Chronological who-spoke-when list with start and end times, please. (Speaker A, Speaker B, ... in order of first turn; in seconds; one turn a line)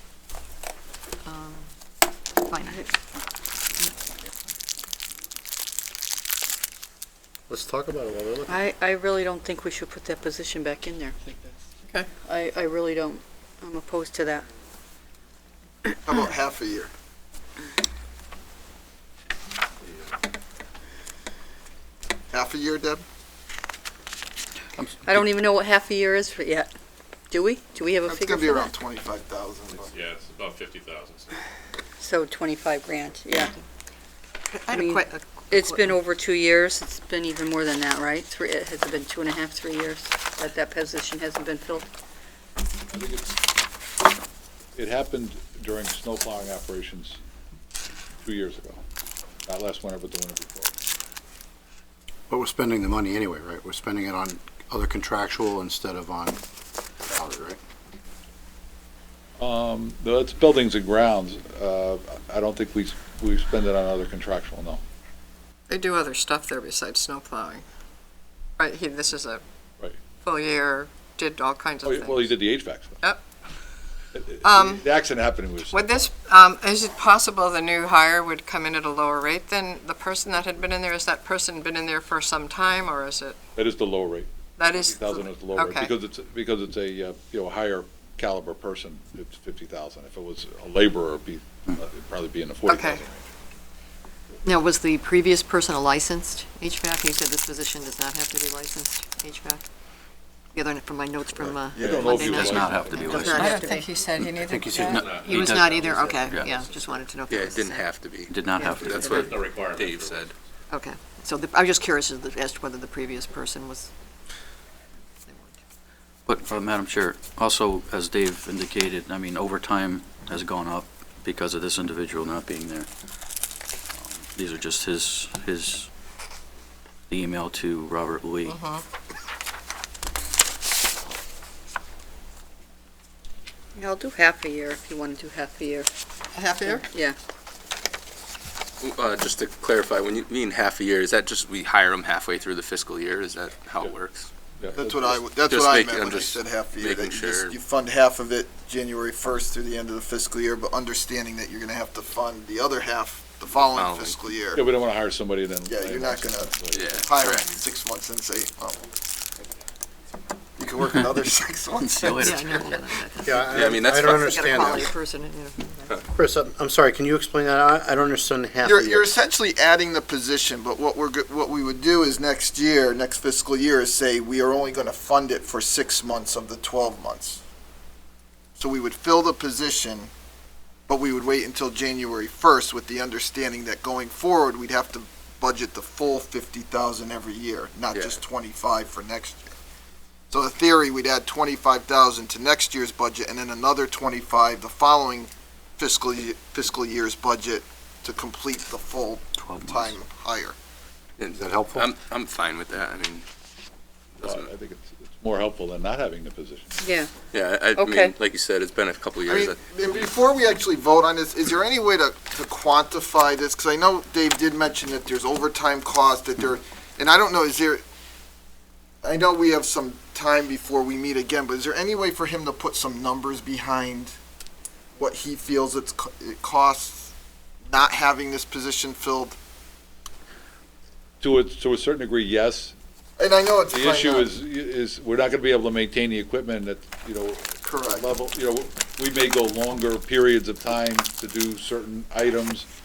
Speaker A: 1.2-1.7
Speaker A: 2.4-2.8
Speaker B: 7.5-8.6
Speaker C: 8.5-11.2
Speaker C: 12.2-14.4
Speaker D: 16.0-16.9
Speaker E: 19.8-20.1
Speaker D: 22.3-23.0
Speaker C: 25.1-26.7
Speaker C: 27.3-28.7
Speaker D: 28.1-29.9
Speaker E: 29.8-31.4
Speaker C: 32.0-33.5
Speaker A: 34.5-35.8
Speaker C: 34.7-41.9
Speaker F: 42.9-43.3
Speaker F: 44.8-47.2
Speaker F: 48.2-48.8
Speaker F: 49.5-50.7
Speaker B: 52.3-56.4
Speaker B: 57.0-57.6
Speaker F: 59.4-64.8
Speaker G: 65.7-67.6
Speaker G: 68.6-69.4
Speaker G: 70.2-72.4
Speaker F: 71.8-73.0
Speaker F: 74.1-75.9
Speaker G: 74.4-74.8
Speaker G: 75.7-83.3
Speaker F: 83.5-93.3
Speaker G: 84.6-85.9
Speaker G: 92.7-93.0
Speaker A: 94.4-99.6
Speaker A: 100.5-102.3
Speaker D: 101.8-102.6
Speaker F: 101.8-103.4
Speaker H: 101.9-107.0
Speaker C: 102.9-103.9
Speaker G: 103.2-105.2
Speaker B: 104.4-105.0
Speaker E: 104.7-106.1
Speaker A: 105.2-107.9
Speaker I: 107.3-110.3
Speaker H: 108.2-109.5
Speaker E: 108.6-110.3
Speaker A: 110.7-113.9
Speaker A: 115.2-115.5
Speaker H: 116.3-122.9
Speaker H: 124.0-125.9
Speaker H: 127.1-128.6
Speaker G: 128.4-128.8
Speaker C: 133.7-135.9
Speaker G: 136.3-136.8
Speaker C: 136.6-137.2
Speaker I: 138.8-144.3
Speaker D: 144.7-154.6
Speaker I: 145.0-147.6
Speaker I: 153.5-154.2
Speaker F: 154.5-157.0
Speaker D: 155.7-158.8
Speaker I: 156.7-157.6
Speaker D: 160.6-162.7
Speaker H: 161.7-163.0
Speaker A: 162.3-163.7
Speaker B: 163.2-164.9
Speaker I: 163.5-164.3
Speaker A: 164.2-165.9
Speaker B: 166.1-169.2
Speaker D: 168.6-177.4
Speaker D: 178.6-180.1
Speaker D: 180.9-189.4
Speaker I: 187.9-188.2
Speaker D: 190.3-200.5
Speaker H: 199.4-199.9
Speaker I: 201.2-203.2
Speaker B: 201.3-201.9
Speaker I: 204.2-204.5
Speaker F: 204.2-206.8
Speaker C: 206.8-207.1
Speaker I: 207.3-210.1
Speaker C: 207.7-208.1
Speaker D: 209.2-217.8
Speaker D: 219.0-224.1
Speaker D: 224.9-227.1
Speaker D: 227.7-229.3
Speaker F: 231.2-232.8
Speaker D: 233.2-234.3
Speaker F: 233.7-242.7
Speaker D: 237.6-238.1